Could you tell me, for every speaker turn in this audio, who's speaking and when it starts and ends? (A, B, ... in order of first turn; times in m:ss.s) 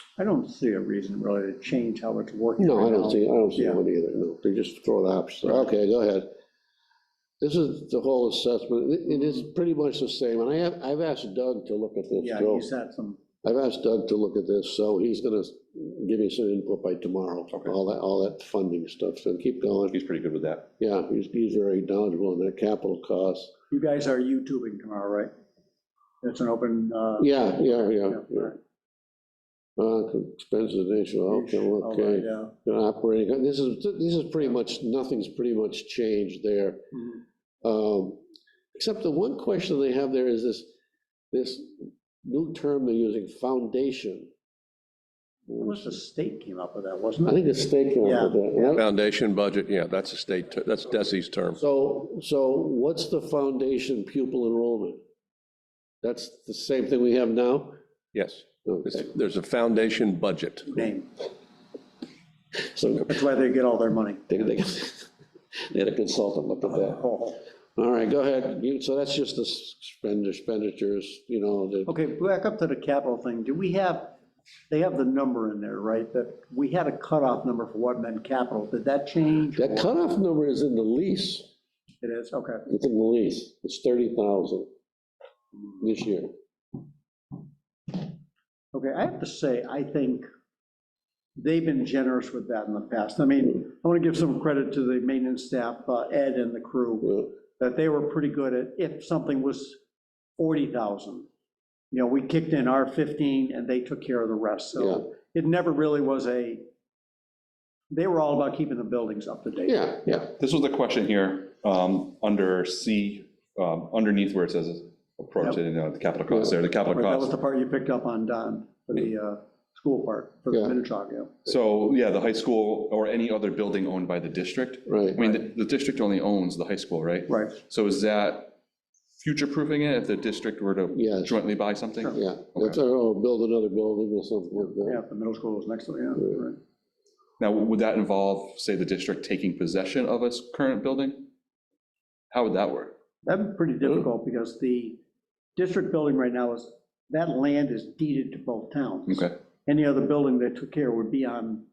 0:00.2-0:03.8 A
0:02.6-0:06.3 B
0:07.4-0:12.7 B
0:12.2-0:13.2 A
0:13.4-0:20.0 B
0:19.9-0:20.7 C
0:20.8-0:23.5 B
0:23.7-0:25.3 A
0:26.2-0:27.4 A
0:27.2-0:28.5 B
0:28.1-0:28.6 A
0:29.8-0:36.8 B
0:31.3-0:32.5 A
0:37.6-0:38.2 B
0:38.7-0:40.7 B
0:41.3-0:44.3 B
0:45.5-0:46.0 B
0:45.6-0:47.4 A
0:47.2-0:48.8 B
0:48.0-0:48.8 A
0:48.7-0:51.6 D
0:51.6-0:55.0 B
0:56.0-0:57.8 B
0:58.1-1:00.7 D
0:58.6-0:59.0 B
1:00.7-1:01.1 A
1:02.7-1:03.1 B
1:03.1-1:04.3 A
1:04.3-1:07.0 B
1:06.6-1:07.4 A
1:07.8-1:11.9 B
1:11.8-1:14.1 A
1:14.7-1:19.9 A
1:19.6-1:21.5 B
1:22.0-1:22.6 A
1:22.7-1:24.7 B
1:25.8-1:26.3 B
1:28.7-1:30.2 A
1:31.4-1:39.8 A
1:37.0-1:37.3 B
1:40.4-1:41.3 A
1:41.9-1:46.6 A
1:44.8-1:45.0 B
1:47.9-1:49.8 A
1:49.6-1:50.3 B
1:50.4-1:57.3 C
1:56.9-2:01.5 A
2:00.5-2:00.8 B
2:01.5-2:08.6 C
2:04.9-2:05.2 B
2:07.3-2:07.6 A
2:09.2-2:12.8 C
2:10.9-2:11.4 B
2:12.1-2:15.0 B
2:14.6-2:16.6 A
2:17.4-2:21.3 C
2:22.3-2:22.9 C
2:23.2-2:25.0 A
2:25.6-2:31.6 A
2:29.1-2:29.3 C